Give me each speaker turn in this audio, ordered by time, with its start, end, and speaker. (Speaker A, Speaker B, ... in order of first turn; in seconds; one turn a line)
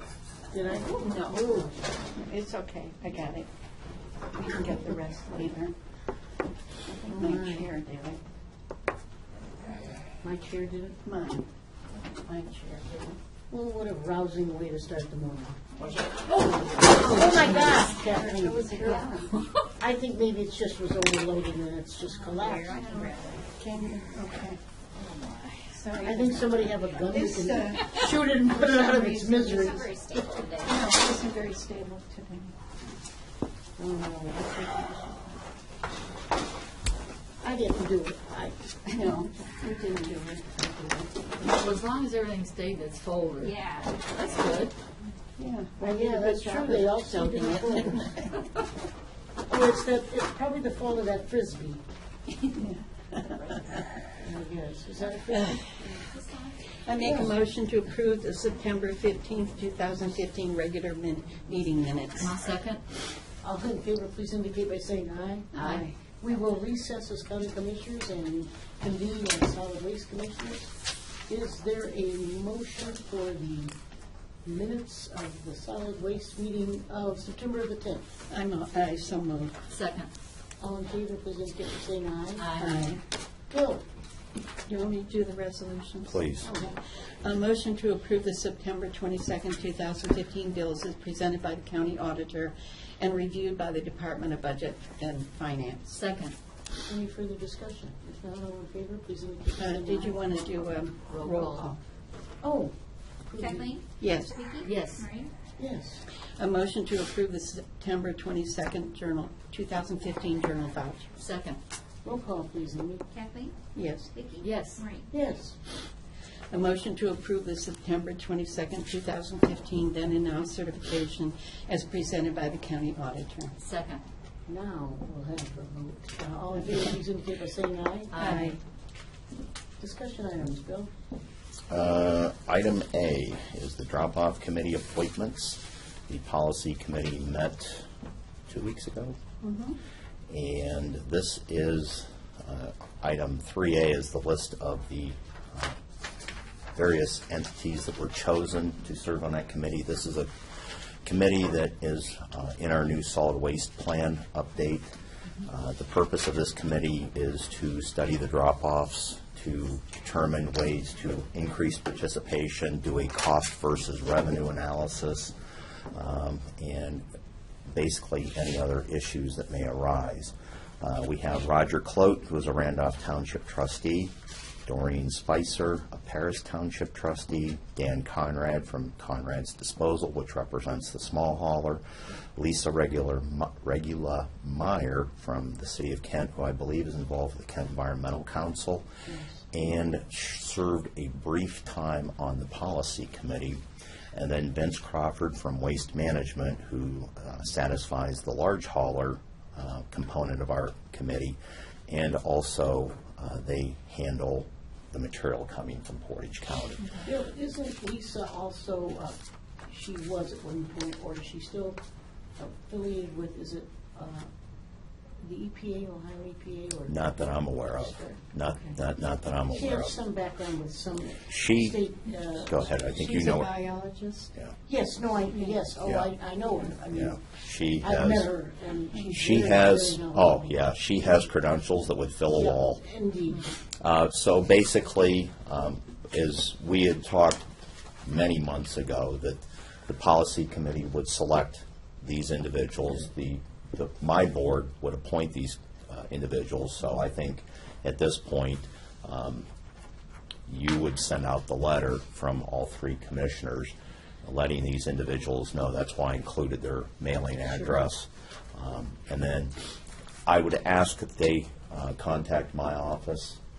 Speaker A: 0.5-1.7
Speaker B: 0.8-3.5
Speaker B: 4.3-5.8
Speaker B: 6.9-8.2
Speaker A: 6.9-7.7
Speaker A: 10.2-11.0
Speaker B: 11.0-13.2
Speaker A: 13.5-15.6
Speaker B: 16.3-19.5
Speaker A: 16.7-19.2
Speaker C: 17.2-17.8
Speaker A: 19.8-22.8
Speaker D: 22.1-23.4
Speaker B: 22.8-24.6
Speaker D: 25.1-25.5
Speaker B: 25.6-29.7
Speaker A: 26.0-30.2
Speaker D: 29.3-30.7
Speaker B: 30.6-32.6
Speaker A: 33.8-35.4
Speaker A: 37.4-38.6
Speaker B: 38.9-41.3
Speaker C: 41.4-44.7
Speaker D: 43.4-44.4
Speaker B: 45.4-48.5
Speaker A: 45.8-48.1
Speaker A: 49.5-51.8
Speaker B: 52.4-53.8
Speaker A: 54.1-56.0
Speaker B: 55.3-55.6
Speaker D: 55.8-56.6
Speaker B: 56.8-62.4
Speaker A: 57.0-57.3
Speaker C: 62.2-62.8
Speaker A: 63.4-70.7
Speaker B: 65.5-66.0
Speaker C: 65.5-65.8
Speaker A: 71.3-73.7
Speaker A: 74.5-78.0
Speaker B: 78.3-79.6
Speaker C: 79.7-80.1
Speaker A: 80.6-82.5
Speaker C: 82.4-82.9
Speaker B: 82.6-83.0
Speaker A: 83.5-83.8
Speaker B: 84.7-96.0
Speaker E: 86.0-86.5
Speaker C: 95.9-96.3
Speaker A: 96.9-100.2
Speaker B: 99.6-101.8
Speaker C: 101.1-101.7
Speaker A: 102.4-102.7
Speaker A: 103.2-103.8
Speaker D: 103.4-105.3
Speaker B: 104.0-104.4
Speaker C: 104.6-105.1
Speaker A: 105.6-106.0
Speaker B: 106.4-111.1
Speaker C: 111.2-111.6
Speaker A: 112.0-113.0
Speaker D: 113.1-113.5
Speaker B: 113.7-114.1
Speaker D: 114.1-115.1
Speaker C: 114.4-114.8
Speaker A: 115.1-115.5
Speaker B: 116.5-123.6
Speaker C: 123.6-124.0
Speaker A: 124.5-128.3
Speaker C: 128.1-128.6
Speaker B: 128.1-128.6
Speaker A: 129.8-130.9
Speaker E: 131.7-137.9
Speaker E: 138.5-139.2
Speaker B: 139.4-139.8
Speaker E: 140.3-145.8
Speaker E: 146.7-154.9
Speaker E: 155.4-165.3
Speaker E: 165.9-167.0
Speaker E: 167.7-174.1
Speaker E: 174.6-181.8
Speaker E: 182.3-188.8
Speaker A: 189.1-189.4
Speaker E: 189.5-193.6
Speaker E: 194.1-207.1
Speaker A: 207.0-211.8
Speaker A: 212.4-214.3
Speaker A: 215.2-217.0
Speaker E: 216.9-220.0
Speaker A: 219.5-222.8
Speaker E: 221.2-223.6
Speaker B: 222.8-224.3
Speaker A: 224.7-227.2
Speaker B: 225.3-225.6
Speaker E: 225.8-226.1
Speaker E: 226.9-228.3
Speaker A: 227.8-230.5
Speaker E: 229.1-232.8
Speaker A: 232.3-233.5
Speaker E: 233.8-237.4
Speaker E: 238.0-249.5
Speaker E: 250.5-259.6
Speaker A: 257.5-257.8
Speaker E: 260.2-263.4